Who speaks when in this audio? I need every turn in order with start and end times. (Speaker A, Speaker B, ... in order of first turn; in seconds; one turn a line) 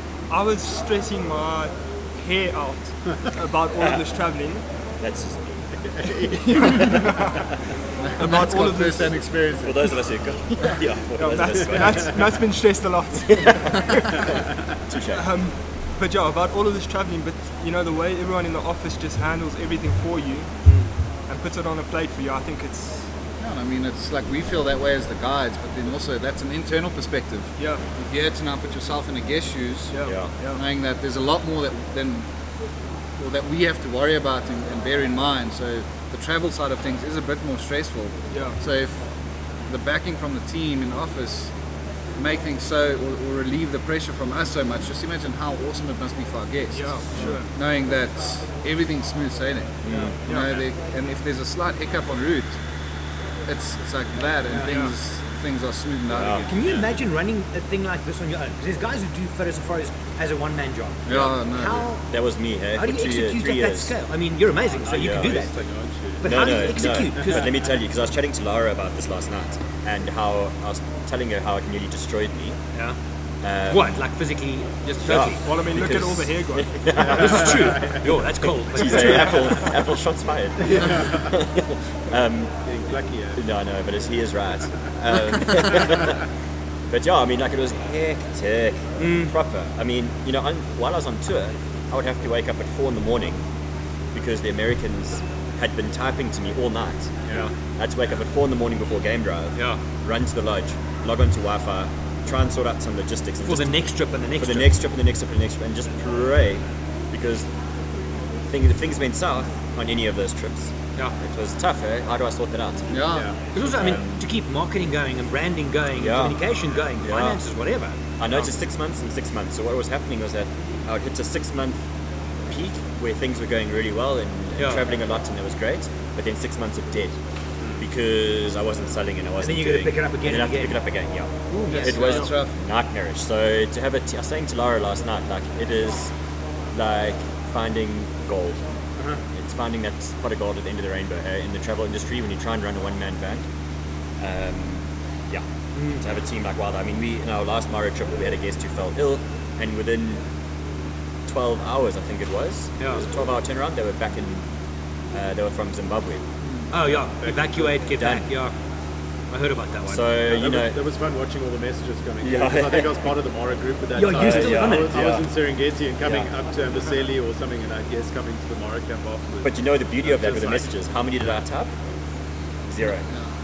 Speaker A: 0.3-4.7
Speaker B: 3.8-4.0
Speaker B: 5.0-5.7
Speaker C: 5.9-7.0
Speaker A: 6.5-7.5
Speaker D: 8.0-10.0
Speaker A: 8.2-9.2
Speaker B: 9.6-12.3
Speaker A: 11.2-14.3
Speaker B: 13.3-13.9
Speaker B: 14.9-15.3
Speaker A: 15.1-23.1
Speaker D: 23.4-32.3
Speaker A: 27.6-27.8
Speaker A: 29.9-30.6
Speaker B: 30.0-30.3
Speaker D: 33.2-39.0
Speaker A: 38.3-38.6
Speaker D: 39.7-41.5
Speaker D: 42.2-52.6
Speaker A: 46.7-47.5
Speaker B: 49.8-50.2
Speaker A: 50.3-50.6
Speaker D: 53.5-56.5
Speaker A: 54.6-54.9
Speaker B: 56.1-56.5
Speaker E: 56.5-62.0
Speaker D: 61.1-61.9
Speaker B: 62.1-63.9
Speaker E: 62.8-65.5
Speaker C: 64.8-66.4
Speaker B: 64.9-65.4
Speaker E: 66.2-67.5
Speaker B: 66.2-72.6
Speaker B: 73.4-74.0
Speaker E: 73.7-75.5
Speaker B: 75.0-77.8
Speaker A: 75.2-76.8
Speaker E: 77.0-79.7
Speaker C: 77.1-78.0
Speaker B: 78.7-82.5
Speaker C: 80.6-81.3
Speaker C: 82.7-83.4
Speaker B: 83.4-86.2
Speaker B: 86.9-93.5
Speaker E: 89.0-89.3
Speaker B: 94.1-103.7
Speaker E: 97.3-97.5
Speaker E: 99.6-99.8
Speaker E: 103.5-104.8
Speaker B: 104.4-107.5
Speaker B: 108.5-112.9
Speaker D: 112.9-113.3
Speaker C: 113.1-113.4
Speaker E: 113.5-118.0
Speaker B: 113.7-114.2
Speaker B: 116.0-116.4
Speaker B: 117.0-117.4
Speaker B: 118.2-121.8
Speaker B: 122.5-127.2
Speaker E: 124.6-124.8
Speaker B: 127.8-136.1
Speaker E: 129.4-130.8
Speaker E: 131.5-132.0
Speaker D: 131.6-132.6
Speaker B: 136.7-138.7
Speaker B: 139.3-143.5
Speaker B: 144.2-145.4
Speaker E: 145.8-146.1
Speaker B: 146.0-150.2
Speaker B: 151.3-154.5
Speaker B: 155.1-156.2
Speaker E: 156.7-158.6
Speaker C: 157.2-157.7
Speaker B: 158.0-158.2
Speaker E: 159.3-160.1
Speaker B: 159.9-160.8
Speaker C: 160.3-170.7
Speaker B: 162.2-162.9
Speaker E: 163.9-165.1
Speaker B: 164.1-165.3
Speaker B: 169.4-171.7
Speaker B: 172.7-173.1